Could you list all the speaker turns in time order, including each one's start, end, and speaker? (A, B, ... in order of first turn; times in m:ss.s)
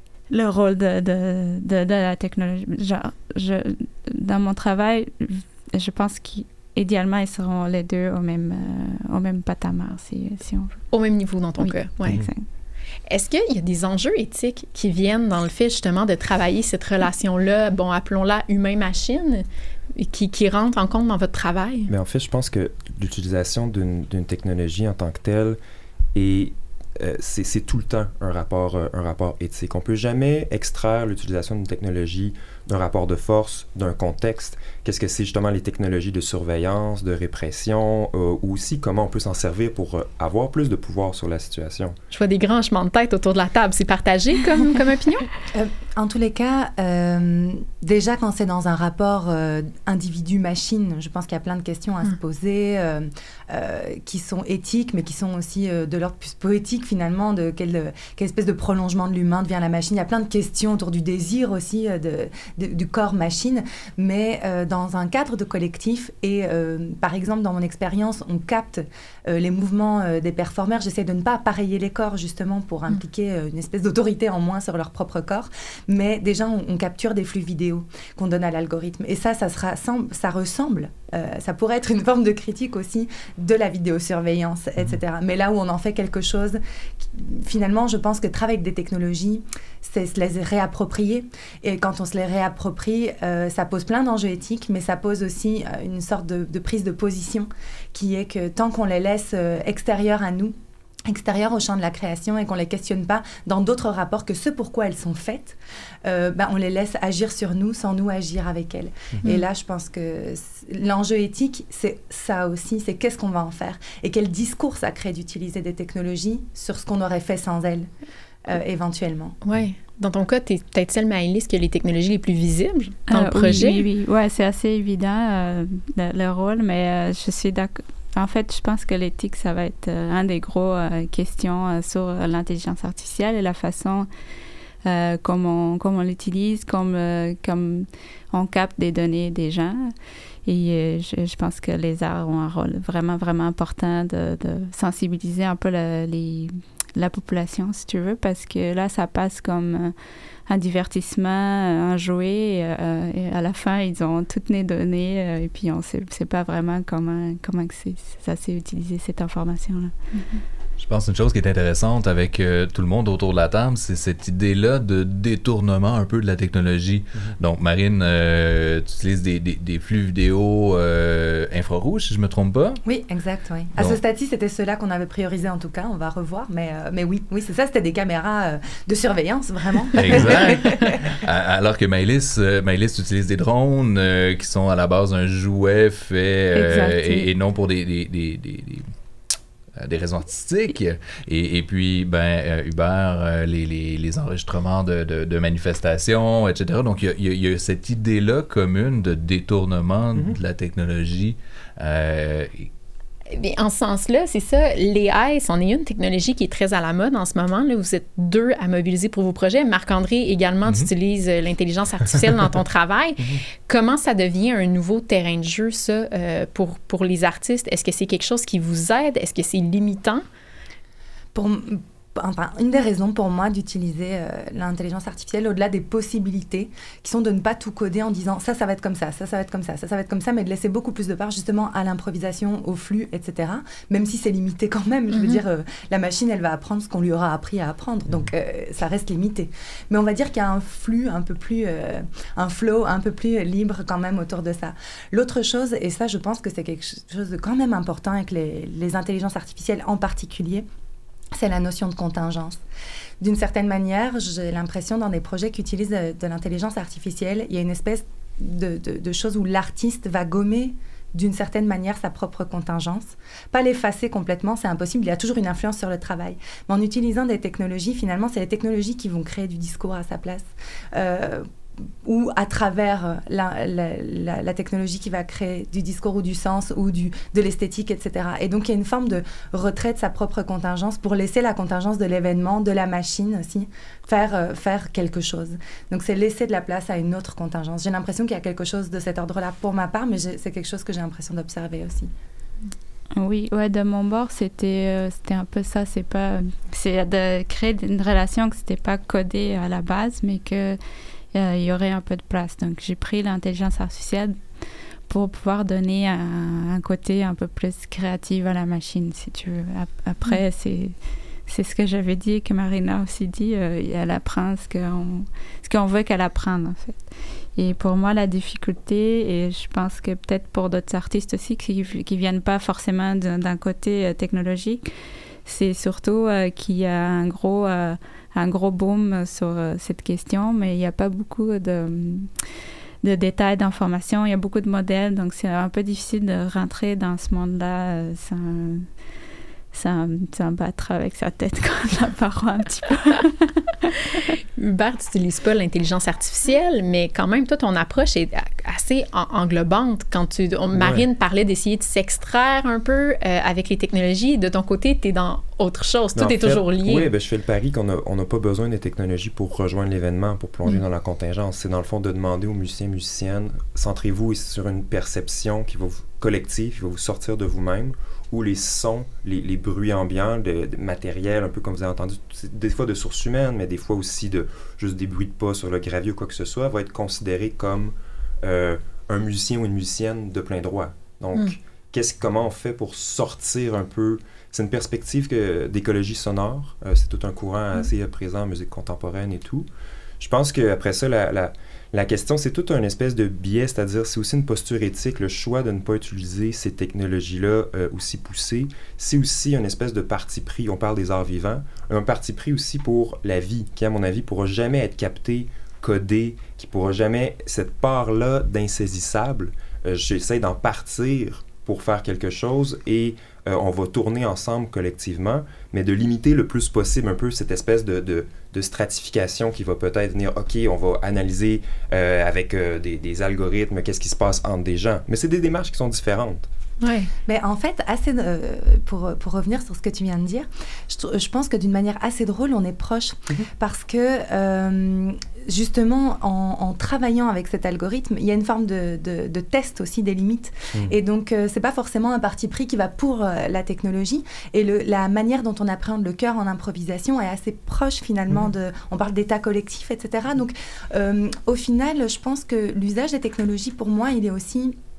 0:00.3-0:10.8 A
0:10.9-0:12.2 B
0:11.6-0:12.4 A
0:12.0-0:12.3 C
0:13.1-0:21.9 B
0:21.9-0:25.6 C
0:26.1-0:42.0 C
0:42.1-0:45.3 B
0:45.5-1:40.5 D
1:41.0-1:57.9 D
1:58.4-1:59.4 D
1:59.4-2:03.9 B
2:03.1-2:14.1 A
2:14.8-2:19.9 A
2:20.4-2:29.9 A
2:30.5-2:39.9 A
2:40.8-2:52.8 E
2:52.8-3:01.0 D
3:00.0-3:08.9 E
3:00.1-3:00.9 B
3:06.6-3:07.3 A
3:09.8-3:22.7 E
3:23.3-3:40.2 B
3:41.3-4:10.6 D
3:55.1-3:55.4 B
4:11.3-4:12.6 D
4:13.2-4:52.1 D
4:53.2-5:00.8 A
5:01.3-5:04.4 A
5:05.1-5:10.9 A
5:11.5-5:24.9 A
5:25.4-5:32.3 A
5:33.0-5:38.9 A
5:39.7-5:43.5 A
5:44.3-5:57.1 B
5:50.7-5:51.1 C
5:56.2-6:29.7 C
6:30.2-7:06.5 C
7:06.8-7:07.1 B
7:07.2-7:34.8 D